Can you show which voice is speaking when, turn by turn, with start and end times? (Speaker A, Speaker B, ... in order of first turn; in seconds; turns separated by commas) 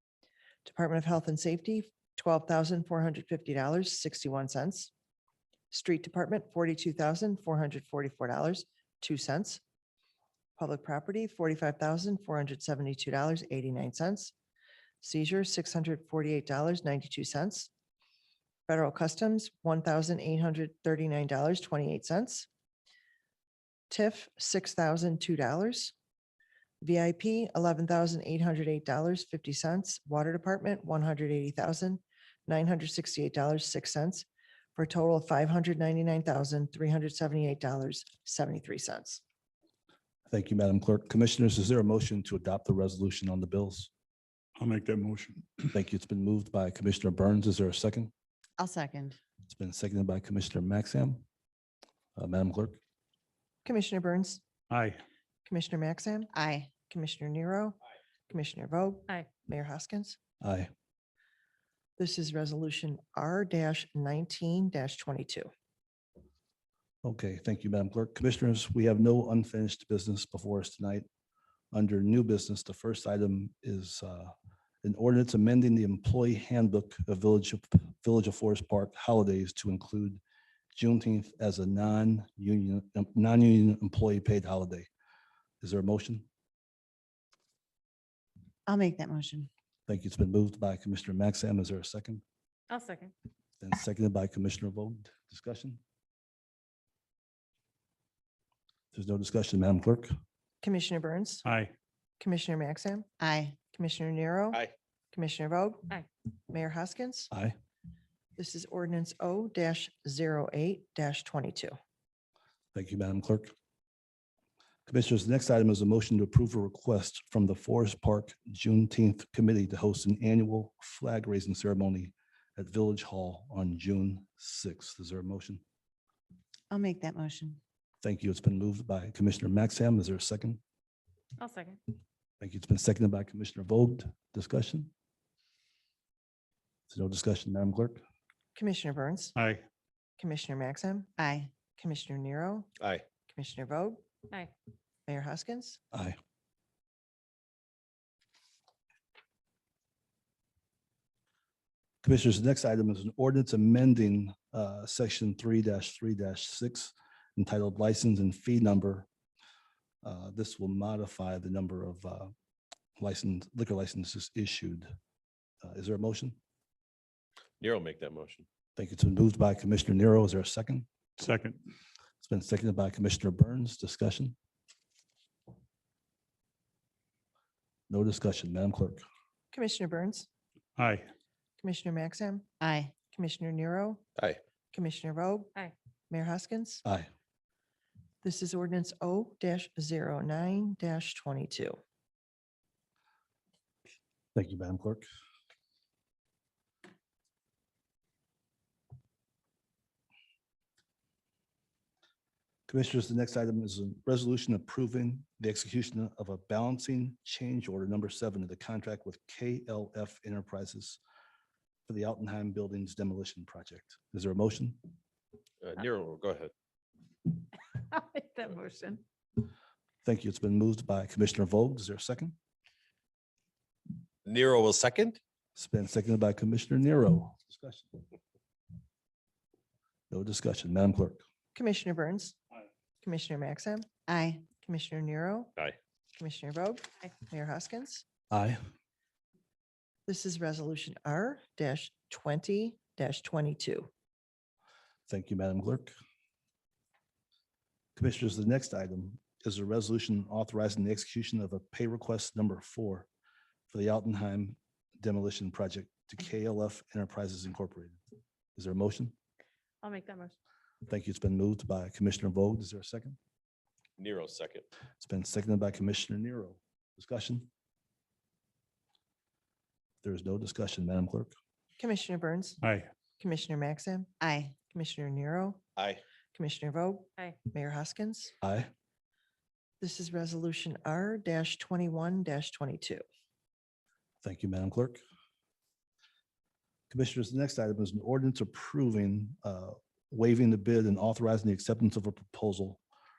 Speaker A: 0.7-4.9, Speaker A: 5.7-9.6, Speaker A: 10.6-14.3, Speaker A: 15.0-17.7, Speaker A: 18.7-22.5, Speaker A: 23.9-25.9, Speaker A: 26.8-39.2, Speaker B: 40.3-43.9, Speaker C: 44.6-45.7, Speaker B: 45.7-48.1, Speaker D: 48.6-49.2, Speaker B: 49.5-51.2, Speaker B: 52.2-52.8, Speaker A: 53.6-54.4, Speaker C: 54.7-55.0, Speaker A: 55.5-56.3, Speaker D: 56.3-56.7, Speaker A: 56.9-57.8, Speaker A: 58.3-60.2, Speaker B: 60.4-60.7, Speaker A: 62.0-65.5, Speaker B: 67.0-71.0, Speaker B: 71.7-74.3, Speaker B: 74.8-80.2, Speaker B: 80.7-84.9, Speaker B: 85.6-86.3, Speaker D: 88.7-89.5, Speaker B: 89.9-92.2, Speaker E: 92.7-93.1, Speaker B: 93.6-95.8, Speaker B: 98.9-100.1, Speaker A: 100.6-101.5, Speaker C: 101.5-101.7, Speaker A: 102.2-103.1, Speaker D: 103.2-103.6, Speaker A: 103.7-105.9, Speaker A: 106.5-107.3, Speaker A: 108.4-111.7, Speaker B: 112.7-113.5, Speaker B: 114.9-125.6, Speaker D: 126.7-127.6, Speaker B: 128.0-130.6, Speaker E: 131.4-131.8, Speaker B: 132.4-134.9, Speaker B: 136.9-138.0, Speaker A: 138.6-139.3, Speaker C: 139.4-139.6, Speaker A: 140.2-141.1, Speaker D: 141.2-141.5, Speaker A: 141.8-142.7, Speaker A: 143.3-144.0, Speaker A: 145.1-145.8, Speaker B: 152.0-159.1, Speaker B: 160.0-162.3, Speaker B: 163.0-164.9, Speaker B: 165.6-166.4, Speaker F: 167.6-168.5, Speaker B: 168.8-170.9, Speaker C: 171.2-171.6, Speaker B: 172.2-174.3, Speaker B: 177.9-179.0, Speaker A: 179.5-180.3, Speaker C: 180.8-181.1, Speaker A: 181.6-182.5, Speaker D: 182.6-182.9, Speaker A: 183.1-184.0, Speaker A: 184.7-185.5, Speaker A: 186.1-186.8, Speaker A: 188.2-191.8, Speaker B: 194.3-195.0, Speaker B: 202.7-211.0, Speaker B: 211.9-214.8, Speaker F: 215.6-216.5, Speaker E: 217.9-219.0, Speaker B: 220.0-222.4, Speaker F: 224.3-225.2, Speaker B: 225.6-228.0, Speaker B: 230.1-231.2, Speaker A: 231.6-232.4, Speaker A: 233.0-233.9, Speaker D: 234.1-234.4, Speaker A: 234.6-235.5, Speaker A: 236.2-238.0, Speaker B: 238.3-238.6, Speaker A: 240.1-243.9, Speaker B: 245.1-245.9, Speaker B: 248.0-253.1, Speaker B: 253.7-258.0, Speaker B: 258.6-259.1, Speaker E: 259.8-260.4, Speaker B: 260.9-263.2, Speaker F: 264.0-264.7, Speaker B: 265.0-267.5, Speaker B: 270.0-271.3, Speaker A: 271.8-272.6, Speaker C: 272.6-272.9, Speaker A: 273.2-274.1, Speaker D: 274.2-274.6, Speaker A: 274.7-275.6, Speaker F: 275.8-276.0, Speaker A: 276.3-278.3, Speaker B: 278.4-278.7, Speaker A: 279.8-283.0, Speaker B: 284.2-285.0, Speaker B: 286.9-292.8